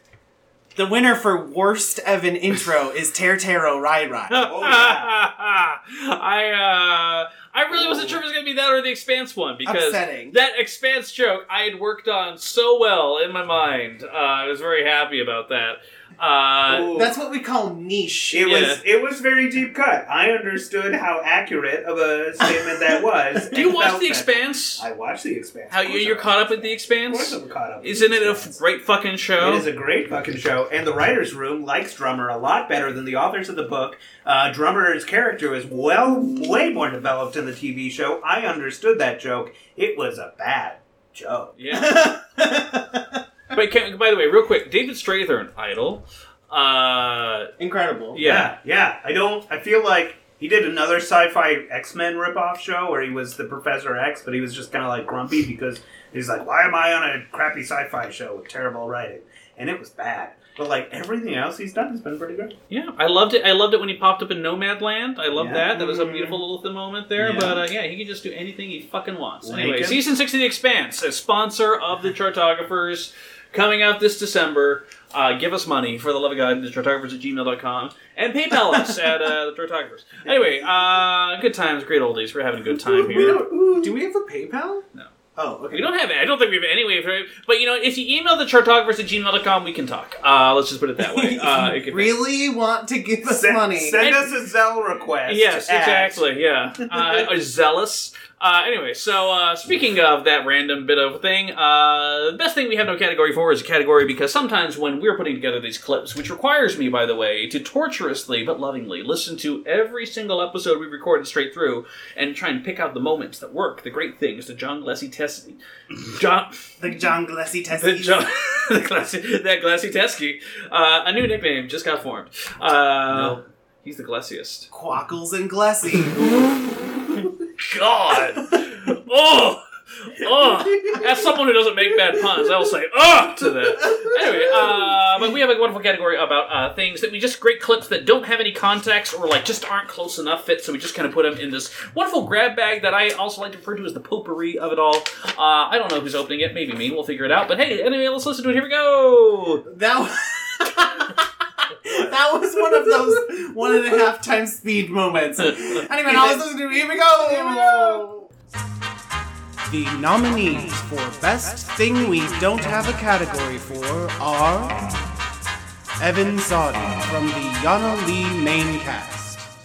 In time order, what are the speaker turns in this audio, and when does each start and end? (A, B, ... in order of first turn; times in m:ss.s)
0:00.8-0:04.5 A
0:04.3-0:16.9 B
0:04.4-0:05.1 C
0:07.7-0:08.2 C
0:09.6-0:10.4 A
0:16.7-0:17.1 C
0:16.9-0:18.8 A
0:18.3-0:28.6 C
0:18.4-0:18.8 B
0:23.5-0:24.8 B
0:25.7-0:29.7 B
0:29.4-0:41.6 C
0:41.6-0:42.1 B
0:41.7-0:43.0 A
0:43.5-0:47.5 B
0:47.6-0:48.2 A
0:48.1-0:48.5 B
0:48.2-1:02.6 C
1:02.7-1:23.4 B
1:05.3-1:06.4 C
1:07.2-1:07.6 C
1:09.4-1:10.0 C
1:22.9-1:23.9 C
1:23.1-1:24.8 A
1:25.4-1:25.9 A
1:25.7-1:32.2 B
1:31.0-1:34.0 A
1:33.2-1:36.2 C
1:34.0-1:34.3 B
1:35.3-1:56.6 B
1:56.8-1:58.2 A
1:57.8-2:04.7 B
2:04.7-2:06.6 A
2:07.6-2:29.6 B
2:29.7-2:31.2 A
2:31.8-2:32.1 B
2:31.8-2:38.3 A
2:37.3-2:37.6 B
2:39.7-2:44.8 D
2:46.0-2:49.4 D